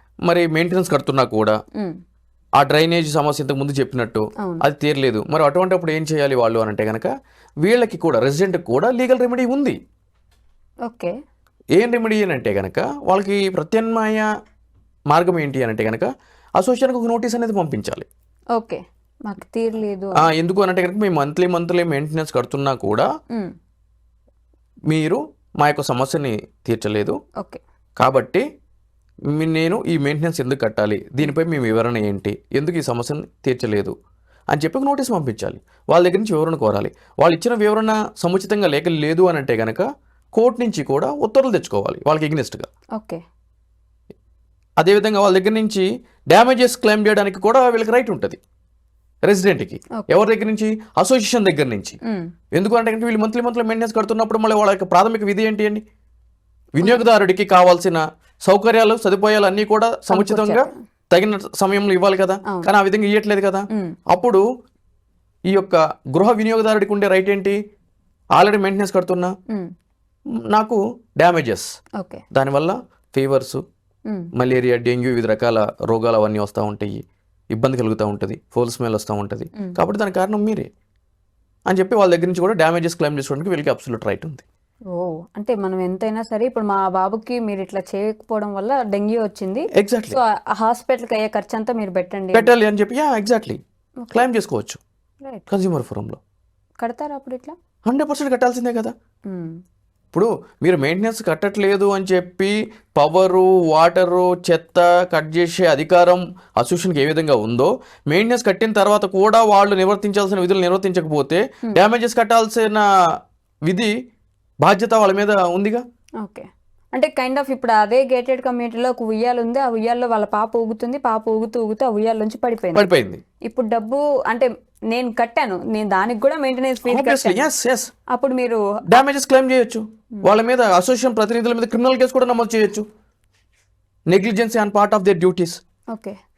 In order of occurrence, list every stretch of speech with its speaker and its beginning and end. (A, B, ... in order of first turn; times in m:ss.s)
0:00.2-0:01.6 A
0:02.6-0:07.1 A
0:07.6-0:09.8 A
0:10.9-0:11.1 B
0:11.7-0:14.3 A
0:15.1-0:18.0 A
0:18.6-0:20.3 B
0:20.2-0:23.1 A
0:24.9-0:27.2 A
0:28.0-0:28.4 A
0:29.3-0:33.9 A
0:34.5-0:42.7 A
0:44.8-0:48.4 A
0:49.2-0:52.0 A
0:52.5-0:55.8 A
0:56.7-1:04.4 A
1:00.1-1:00.7 B
1:03.7-1:04.0 B
1:05.5-1:07.6 A
1:08.3-1:09.3 A
1:10.5-1:11.7 A
1:12.3-1:13.6 A
1:14.4-1:17.0 A
1:17.5-1:20.7 A
1:21.7-1:24.4 A
1:24.9-1:32.5 B
1:29.8-1:30.2 A
1:32.3-1:33.6 A
1:34.1-1:34.8 A
1:35.5-1:36.2 A
1:36.8-1:37.5 B
1:37.8-1:38.9 A
1:40.1-1:52.8 A
1:53.7-1:53.9 A
1:54.6-1:55.8 A
1:56.2-2:02.9 B
2:02.7-2:03.2 A
2:03.4-2:07.4 B
2:06.9-2:07.9 A
2:08.1-2:08.6 B
2:08.9-2:12.8 A
2:14.1-2:15.6 A